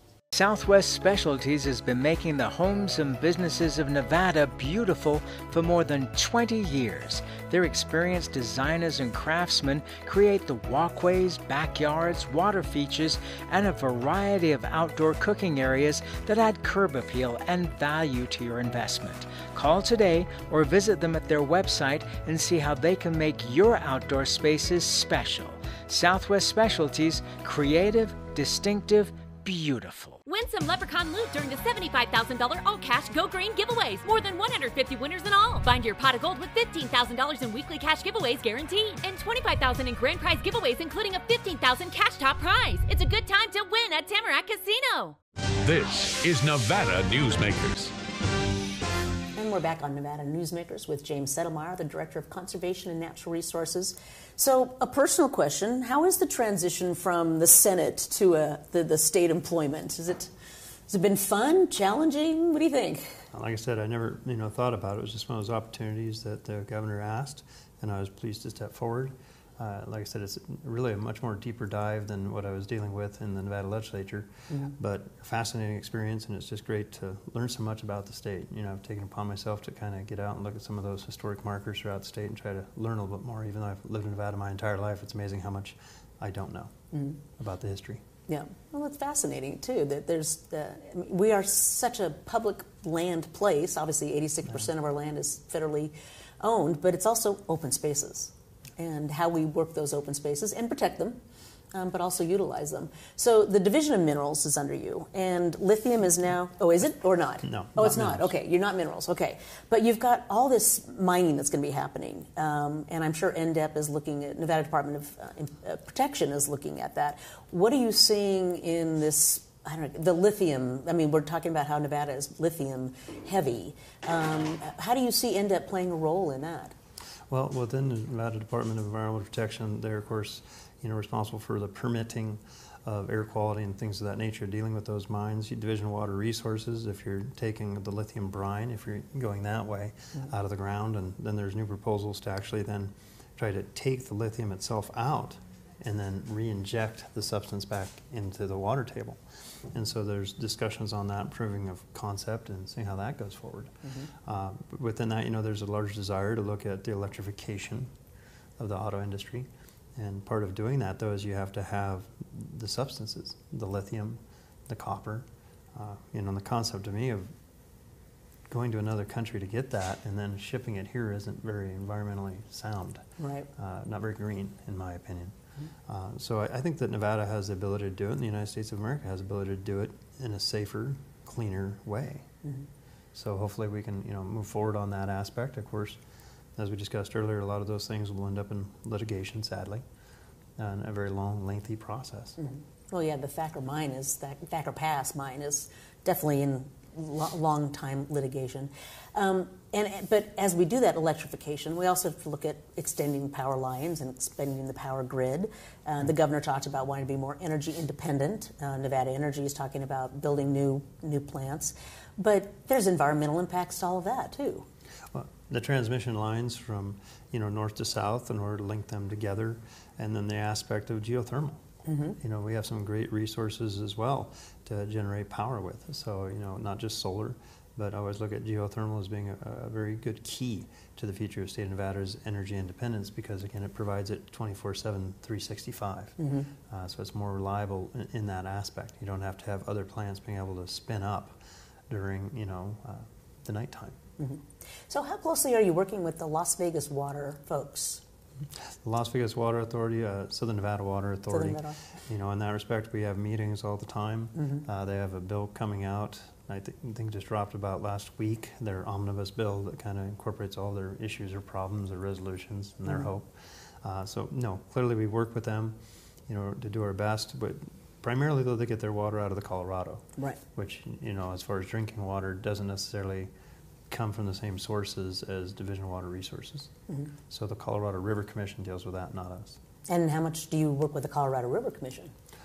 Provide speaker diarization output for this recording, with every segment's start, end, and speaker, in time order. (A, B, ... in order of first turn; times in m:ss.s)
0:00.3-0:30.2 A
0:30.2-0:45.2 B
0:45.6-0:47.9 C
0:49.3-1:00.3 D
1:00.9-1:03.2 D
1:03.3-1:26.7 E
1:26.9-1:27.2 D
1:27.3-1:28.0 E
1:28.3-1:41.2 D
1:41.7-2:06.7 D
1:47.4-1:48.3 E
2:07.3-2:29.2 E
2:29.7-2:37.9 E
2:33.8-2:34.1 D
2:38.6-2:47.3 E
2:48.5-2:53.0 E
2:53.2-2:53.5 D
2:53.6-3:02.3 E
3:03.1-3:06.0 E
3:06.6-3:09.8 E
3:10.6-3:12.4 E
3:12.4-3:34.7 D
3:35.1-3:41.6 E
3:41.8-3:42.2 D
3:42.2-4:01.4 E
3:56.2-3:56.5 D
4:01.9-4:04.0 E
4:04.2-4:08.0 D
4:08.6-4:33.3 E
4:11.3-4:11.8 D
4:14.4-4:14.6 D
4:33.9-4:36.7 E
4:37.3-4:39.6 E
4:39.9-4:42.1 D